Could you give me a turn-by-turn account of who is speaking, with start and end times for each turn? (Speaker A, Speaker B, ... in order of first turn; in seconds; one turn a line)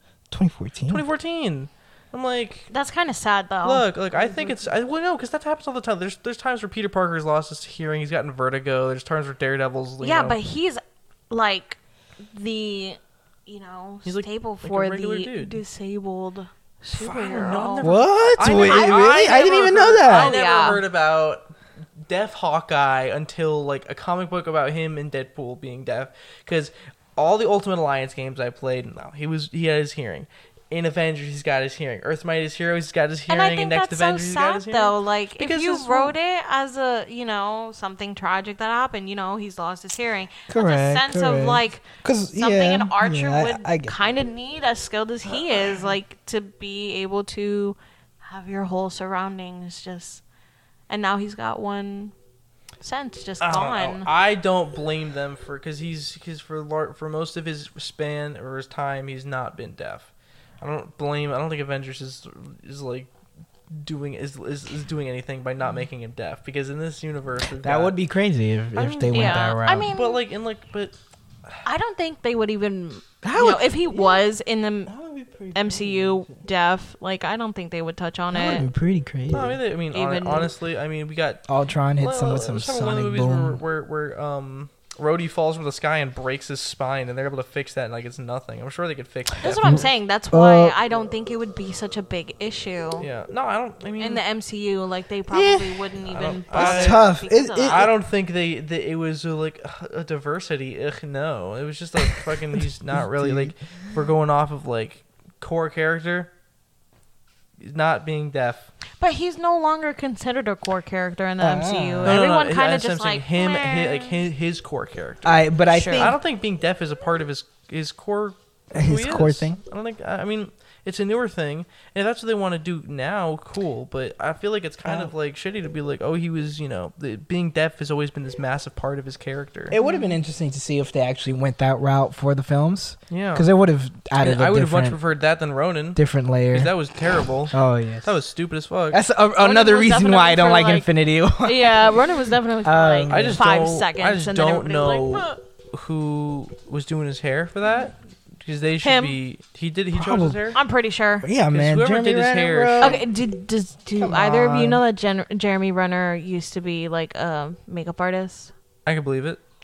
Speaker A: 0.3-1.0
Speaker B: 0.9-2.7
Speaker C: 2.7-4.6
Speaker B: 3.6-10.4
Speaker C: 10.0-19.4
Speaker B: 14.0-15.6
Speaker B: 16.9-21.5
Speaker A: 17.8-20.3
Speaker C: 20.0-20.8
Speaker B: 22.1-36.1
Speaker C: 33.3-41.8
Speaker A: 40.5-43.9
Speaker C: 42.4-50.2
Speaker C: 50.9-52.1
Speaker C: 52.8-54.1
Speaker B: 53.4-63.1
Speaker B: 63.7-68.0
Speaker A: 67.6-69.9
Speaker B: 68.8-71.0
Speaker C: 69.1-70.2
Speaker C: 71.6-74.9
Speaker A: 73.2-74.3
Speaker A: 74.8-76.4
Speaker C: 75.5-78.7
Speaker A: 78.3-79.6
Speaker B: 79.3-81.4
Speaker C: 79.9-80.5
Speaker A: 81.5-83.6
Speaker B: 82.0-89.9
Speaker C: 89.4-93.1
Speaker A: 89.6-90.8
Speaker B: 93.0-94.2
Speaker C: 94.0-97.9
Speaker A: 95.3-95.8
Speaker B: 96.1-97.1
Speaker A: 96.5-97.9
Speaker B: 97.6-106.3
Speaker A: 103.0-103.5
Speaker B: 107.6-108.7
Speaker C: 109.0-114.2
Speaker A: 111.4-112.2
Speaker B: 112.0-129.8
Speaker A: 115.2-116.2
Speaker C: 115.7-116.2
Speaker A: 118.7-119.6
Speaker A: 124.8-125.1
Speaker A: 129.7-135.0
Speaker C: 129.7-130.2
Speaker B: 133.1-133.5
Speaker B: 134.2-139.0
Speaker A: 135.9-136.7
Speaker A: 137.5-138.1
Speaker A: 138.9-142.0
Speaker C: 139.4-140.9
Speaker C: 141.4-145.4
Speaker A: 142.6-143.4
Speaker B: 143.1-150.6
Speaker C: 148.8-149.2
Speaker A: 149.9-150.4
Speaker C: 150.5-151.3
Speaker A: 151.2-153.1
Speaker B: 151.5-153.0
Speaker C: 152.8-158.5
Speaker A: 154.0-154.8
Speaker B: 158.8-159.4